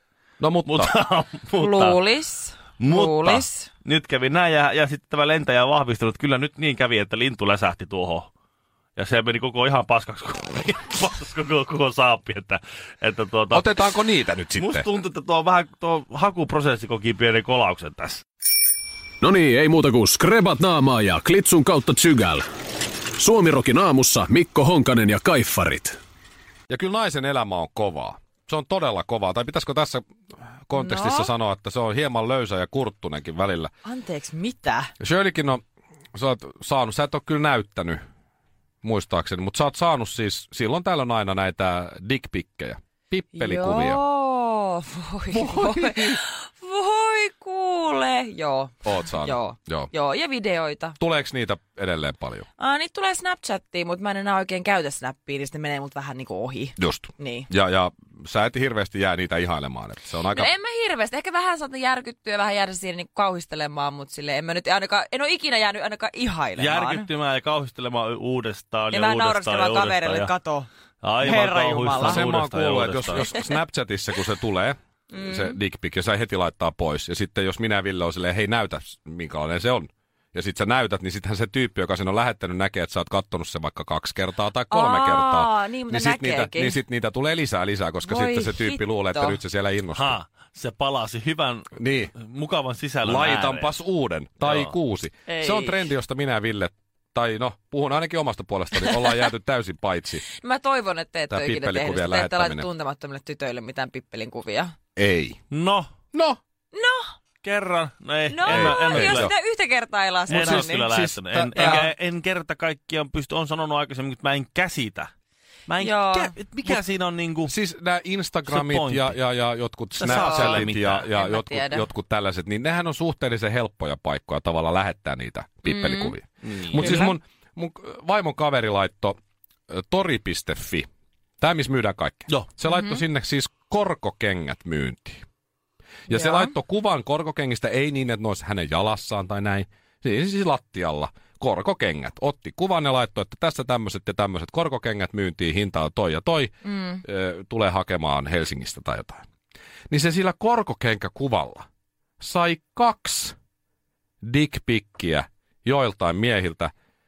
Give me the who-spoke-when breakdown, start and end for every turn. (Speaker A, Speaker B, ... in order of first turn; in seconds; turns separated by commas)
Speaker A: 0.4-0.9, Speaker B: 0.7-2.0, Speaker C: 1.6-3.7, Speaker B: 2.8-8.3, Speaker B: 9.0-13.7, Speaker A: 13.5-14.9, Speaker B: 14.6-18.2, Speaker D: 19.2-22.4, Speaker D: 23.2-26.0, Speaker A: 26.7-30.1, Speaker A: 30.7-33.7, Speaker C: 30.8-31.3, Speaker C: 33.9-34.9, Speaker A: 35.0-35.6, Speaker A: 36.1-38.0, Speaker A: 38.8-44.0, Speaker C: 43.3-51.0, Speaker A: 45.3-46.2, Speaker A: 48.8-49.9, Speaker A: 51.0-52.5, Speaker C: 52.6-57.5, Speaker A: 56.8-60.5, Speaker C: 60.3-67.1, Speaker B: 66.6-70.3, Speaker C: 68.9-70.7, Speaker B: 71.0-73.3, Speaker C: 71.2-72.2, Speaker A: 72.0-90.2, Speaker C: 75.1-75.6, Speaker C: 84.7-86.8, Speaker C: 88.0-89.4, Speaker B: 89.9-93.7, Speaker A: 91.8-92.1, Speaker A: 93.0-100.2, Speaker B: 94.4-94.7, Speaker C: 95.3-95.9, Speaker C: 98.8-99.1, Speaker C: 100.4-104.7, Speaker A: 101.3-102.7, Speaker A: 105.0-105.4, Speaker B: 105.5-105.9, Speaker A: 106.1-106.4, Speaker C: 106.7-107.1, Speaker B: 107.4-109.3, Speaker C: 108.3-110.9, Speaker A: 108.5-109.3, Speaker B: 110.3-115.1, Speaker A: 110.3-111.9, Speaker C: 111.6-111.9, Speaker B: 115.7-117.5, Speaker C: 115.8-116.3, Speaker A: 117.5-129.2, Speaker B: 118.5-119.2, Speaker B: 120.0-121.1, Speaker C: 120.0-121.9, Speaker C: 125.7-126.2, Speaker B: 126.4-127.1, Speaker C: 126.8-127.1, Speaker A: 129.7-130.9, Speaker A: 131.4-135.2, Speaker C: 132.7-133.0, Speaker A: 136.1-149.2, Speaker C: 136.1-136.5, Speaker C: 146.7-147.0, Speaker A: 149.9-151.7, Speaker A: 152.2-153.4, Speaker A: 154.2-156.7